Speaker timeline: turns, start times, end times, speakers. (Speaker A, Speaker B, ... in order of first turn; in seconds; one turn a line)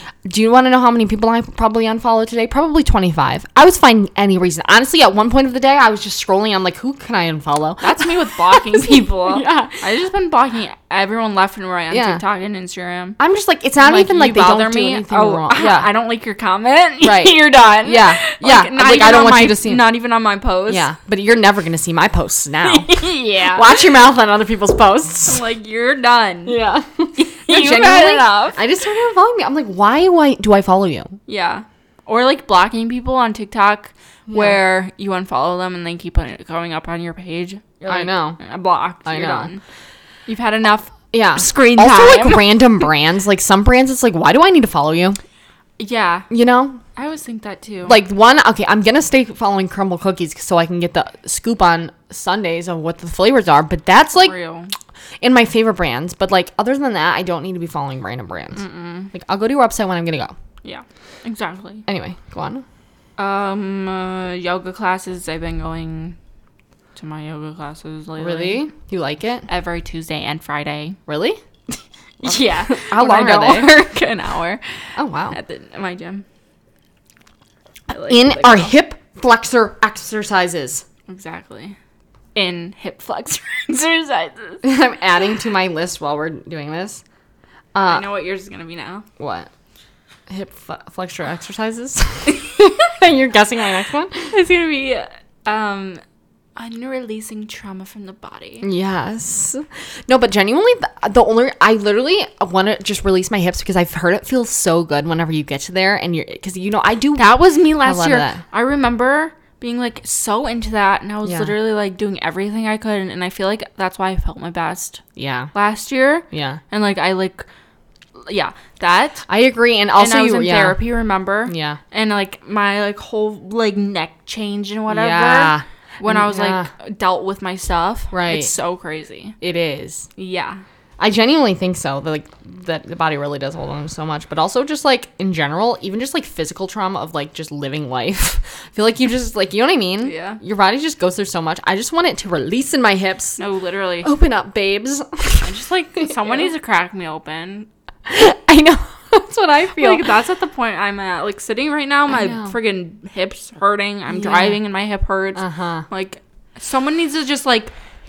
Speaker A: 0.2-9.8
Speaker B: 7.8-13.2
Speaker A: 11.9-12.2
Speaker A: 13.2-15.9
Speaker B: 13.8-20.9
Speaker A: 17.0-20.0
Speaker A: 20.7-25.4
Speaker B: 22.6-23.8
Speaker B: 25.2-26.6
Speaker A: 26.4-31.1
Speaker B: 27.1-28.6
Speaker B: 31.3-39.6
Speaker A: 34.3-34.6
Speaker A: 37.9-38.4
Speaker A: 39.0-39.5
Speaker B: 40.3-42.8
Speaker A: 41.1-45.2
Speaker B: 45.8-46.3
Speaker A: 46.3-46.8
Speaker B: 47.0-48.0
Speaker A: 47.8-54.3
Speaker B: 54.1-54.7
Speaker A: 55.2-58.6
Speaker B: 58.5-59.1
Speaker A: 59.1-60.3
Speaker B: 60.6-61.8
Speaker A: 61.9-62.6
Speaker B: 63.2-66.2
Speaker B: 67.0-68.6
Speaker A: 68.2-69.5
Speaker B: 69.5-71.0
Speaker A: 71.1-71.4
Speaker A: 72.2-73.7
Speaker B: 72.2-74.8
Speaker A: 75.0-75.3
Speaker B: 75.3-76.2
Speaker B: 77.9-78.7
Speaker A: 78.1-80.8
Speaker B: 81.1-81.8
Speaker B: 82.3-84.6
Speaker A: 84.6-87.0
Speaker A: 87.7-88.0
Speaker B: 87.8-89.0
Speaker A: 89.2-89.5
Speaker A: 90.3-94.3
Speaker B: 94.3-96.0
Speaker B: 96.5-98.7
Speaker A: 98.6-108.4
Speaker B: 107.2-115.0
Speaker A: 111.2-111.5
Speaker A: 115.2-115.5
Speaker B: 115.5-117.4
Speaker A: 116.3-116.6
Speaker B: 118.2-119.2
Speaker A: 119.3-120.8
Speaker B: 120.0-129.3
Speaker A: 121.5-121.8
Speaker A: 124.9-126.7
Speaker A: 128.1-128.5
Speaker A: 129.4-130.1
Speaker B: 130.2-130.6
Speaker A: 131.0-143.4
Speaker B: 140.0-140.4
Speaker B: 143.4-144.1
Speaker A: 144.0-146.5
Speaker B: 145.4-147.7
Speaker A: 148.1-150.1
Speaker B: 149.7-157.7
Speaker A: 152.1-152.5
Speaker A: 154.1-154.6
Speaker A: 155.3-155.8